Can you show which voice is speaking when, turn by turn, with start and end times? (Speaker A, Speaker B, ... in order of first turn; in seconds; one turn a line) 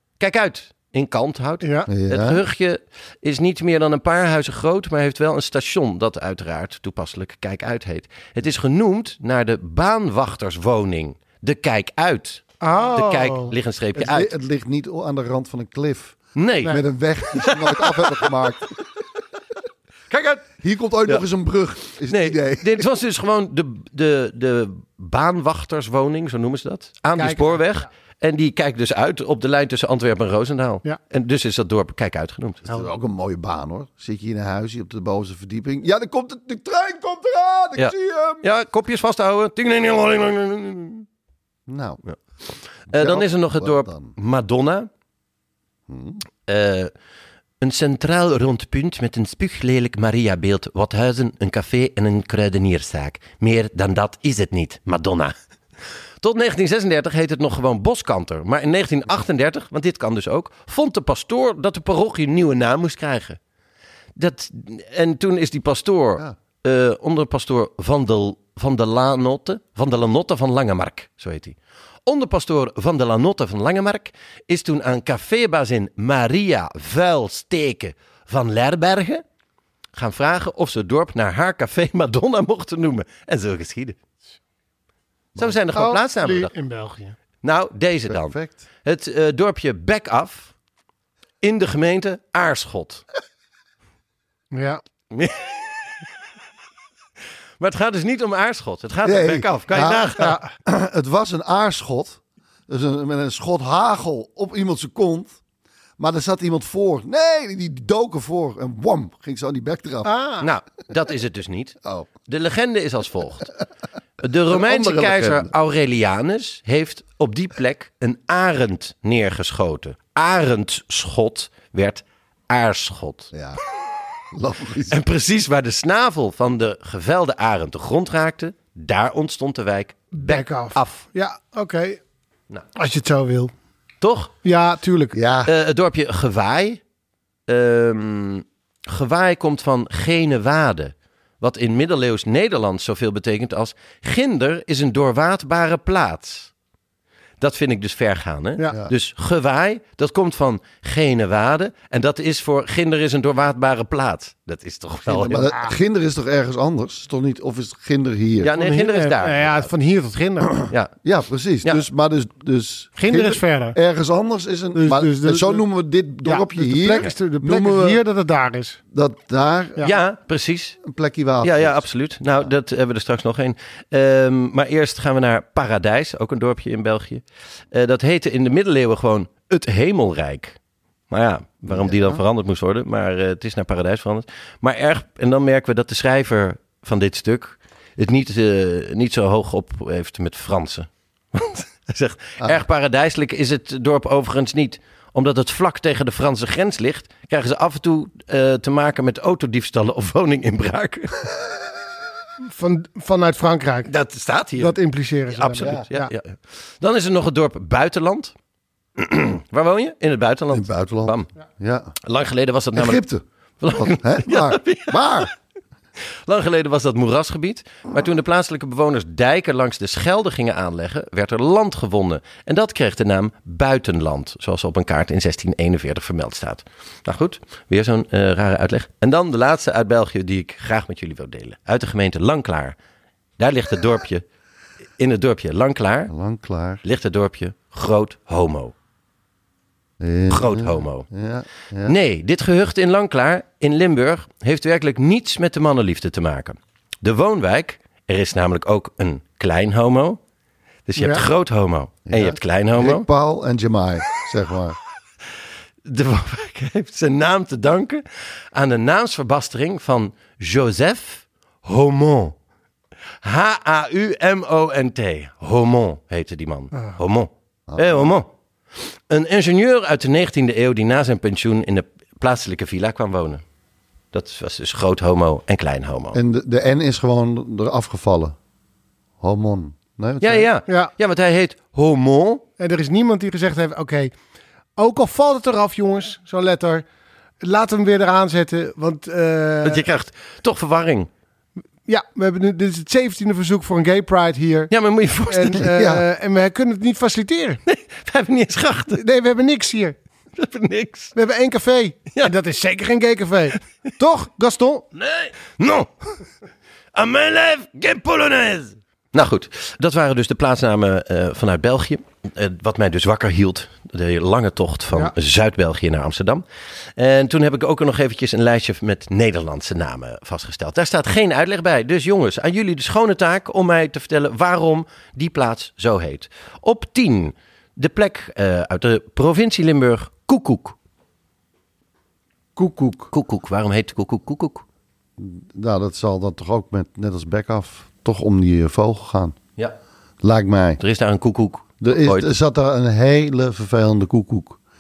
Speaker A: 0.2-14.3
Speaker B: 1.6-1.9
Speaker C: 1.9-2.4
Speaker B: 12.6-13.6
Speaker C: 13.9-18.7
Speaker A: 16.4-18.3
Speaker A: 20.1-21.2
Speaker C: 20.6-22.9
Speaker A: 22.1-32.6
Speaker B: 27.2-27.9
Speaker C: 32.7-38.5
Speaker A: 37.8-41.1
Speaker C: 41.7-42.0
Speaker A: 42.9-44.9
Speaker C: 42.9-44.1
Speaker C: 45.9-46.2
Speaker A: 46.5-46.9
Speaker A: 47.6-55.3
Speaker A: 56.2-63.4
Speaker A: 64.2-79.2
Speaker A: 80.0-84.0
Speaker C: 85.4-85.6
Speaker A: 85.4-86.5
Speaker B: 85.7-87.2
Speaker A: 87.4-90.5
Speaker C: 88.1-88.6
Speaker A: 91.4-93.0
Speaker B: 94.5-94.8
Speaker A: 95.1-95.9
Speaker A: 97.6-100.4
Speaker C: 99.0-105.4
Speaker B: 100.2-100.5
Speaker C: 106.0-110.1
Speaker B: 110.0-110.5
Speaker A: 110.4-113.5
Speaker A: 114.2-123.3
Speaker C: 114.5-115.5
Speaker C: 123.3-123.6
Speaker C: 124.3-125.0
Speaker A: 124.9-131.1
Speaker B: 130.2-132.0
Speaker B: 132.8-133.5
Speaker A: 134.0-134.3
Speaker B: 134.4-135.2
Speaker C: 135.1-135.5
Speaker A: 135.5-136.8
Speaker A: 137.5-146.5
Speaker A: 147.4-155.5
Speaker C: 155.1-158.5
Speaker A: 158.4-159.7
Speaker B: 158.6-160.7
Speaker C: 161.0-168.0
Speaker B: 163.0-163.8
Speaker B: 164.7-165.6
Speaker B: 166.2-168.8
Speaker C: 168.9-169.9
Speaker A: 169.8-170.8
Speaker C: 170.8-171.8
Speaker A: 171.4-180.6
Speaker A: 181.1-201.3
Speaker C: 181.7-182.2
Speaker B: 202.5-203.9
Speaker A: 203.9-208.3
Speaker B: 204.6-206.1
Speaker A: 209.0-211.3
Speaker C: 210.5-211.9
Speaker A: 212.0-213.0
Speaker C: 212.7-215.3
Speaker A: 213.6-215.3
Speaker A: 216.3-232.8
Speaker A: 233.4-234.2
Speaker A: 235.0-236.1
Speaker C: 236.1-236.8
Speaker A: 236.8-238.7
Speaker C: 240.0-241.9
Speaker A: 240.3-241.1
Speaker A: 241.8-250.2
Speaker A: 250.9-253.1
Speaker B: 251.0-251.2
Speaker C: 252.1-254.8
Speaker A: 255.8-262.4
Speaker A: 263.2-268.3
Speaker C: 267.7-268.1
Speaker A: 269.1-273.4
Speaker A: 274.1-276.2
Speaker C: 276.1-278.4
Speaker C: 279.2-280.5
Speaker A: 280.2-282.4
Speaker B: 282.6-284.1
Speaker B: 284.8-286.8
Speaker B: 287.4-289.9
Speaker A: 289.6-291.1
Speaker B: 291.9-294.7
Speaker A: 294.7-295.7
Speaker B: 295.3-297.6
Speaker C: 295.7-296.0
Speaker A: 297.7-299.0
Speaker B: 298.9-300.0
Speaker A: 300.4-301.1
Speaker B: 301.1-304.9
Speaker A: 305.0-305.9
Speaker A: 306.9-316.4
Speaker A: 317.0-330.8
Speaker C: 332.6-333.1
Speaker A: 333.1-334.6
Speaker C: 335.2-339.4
Speaker C: 340.2-340.8
Speaker A: 340.8-342.3
Speaker C: 341.8-344.6